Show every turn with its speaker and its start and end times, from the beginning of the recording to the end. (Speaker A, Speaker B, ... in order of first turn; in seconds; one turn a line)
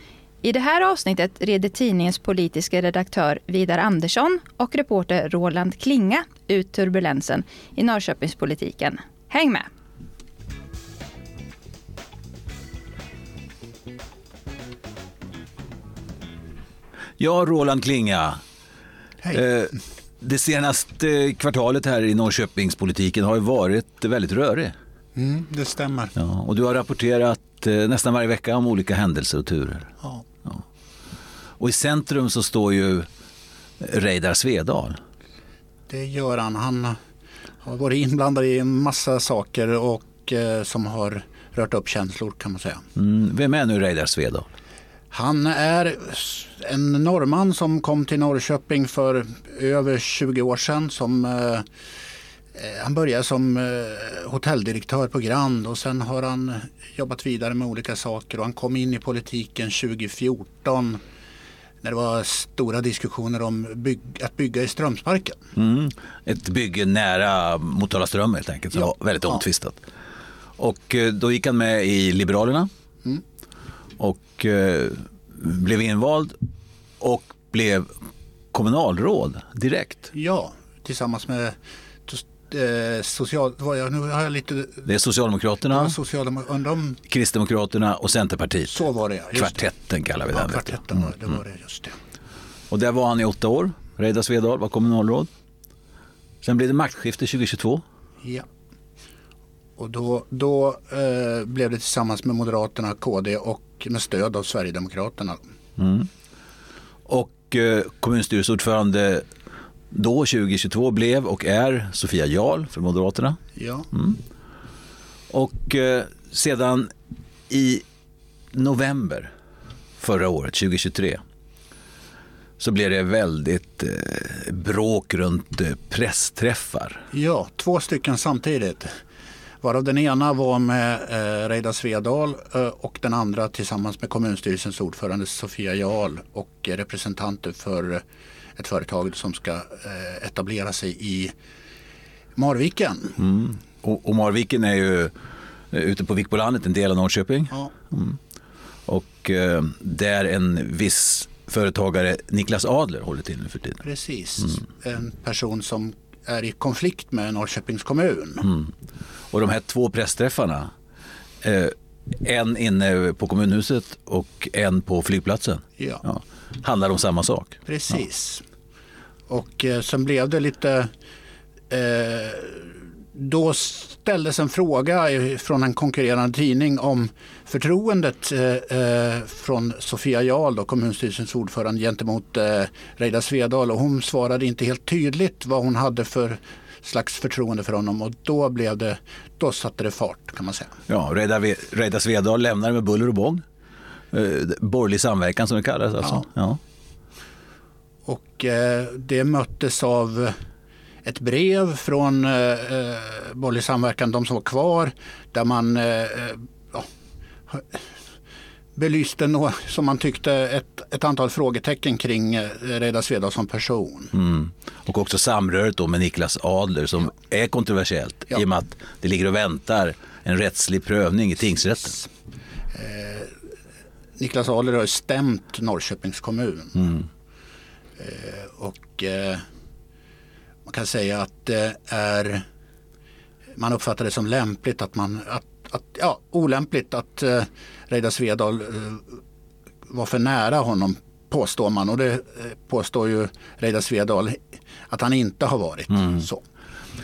Speaker A: 0.4-9.7
Speaker B: 17.2-18.4
Speaker B: 19.3-24.7
Speaker C: 25.1-26.1
Speaker B: 26.2-29.9
Speaker B: 31.6-33.1
Speaker B: 33.8-35.0
Speaker C: 35.9-37.0
Speaker C: 37.6-42.8
Speaker B: 43.0-44.5
Speaker C: 45.1-51.7
Speaker C: 52.5-61.0
Speaker C: 61.8-65.4
Speaker B: 65.6-69.8
Speaker B: 70.6-72.7
Speaker B: 74.0-76.4
Speaker B: 77.0-77.9
Speaker B: 78.5-80.1
Speaker C: 80.1-84.9
Speaker B: 84.8-86.0
Speaker C: 85.7-87.0
Speaker B: 87.1-90.8
Speaker C: 88.7-89.7
Speaker C: 90.3-92.0
Speaker B: 92.7-95.3
Speaker B: 96.4-97.8
Speaker C: 99.8-105.4
Speaker B: 105.8-106.1
Speaker B: 107.1-109.3
Speaker B: 109.9-113.4
Speaker C: 113.6-113.9
Speaker B: 113.9-114.2
Speaker B: 115.3-116.9
Speaker B: 117.5-117.8
Speaker B: 118.5-119.3
Speaker B: 120.0-121.2
Speaker B: 122.6-127.0
Speaker C: 127.1-128.9
Speaker C: 129.6-138.0
Speaker C: 138.6-141.3
Speaker C: 142.4-143.2
Speaker B: 143.2-145.1
Speaker B: 145.7-148.2
Speaker B: 148.9-153.8
Speaker C: 153.8-158.5
Speaker B: 158.4-158.7
Speaker B: 159.3-160.7
Speaker B: 161.4-167.6
Speaker C: 165.8-166.0
Speaker C: 167.7-168.4
Speaker C: 169.3-170.9
Speaker C: 171.7-190.7
Speaker B: 190.9-193.4
Speaker B: 194.1-196.6
Speaker C: 198.1-200.3
Speaker C: 201.1-206.9
Speaker C: 207.5-207.8
Speaker C: 208.8-214.1
Speaker B: 214.1-222.0
Speaker C: 222.7-223.3
Speaker C: 224.2-227.0
Speaker C: 228.0-229.4
Speaker C: 230.7-232.4
Speaker C: 233.6-239.2
Speaker C: 239.9-246.4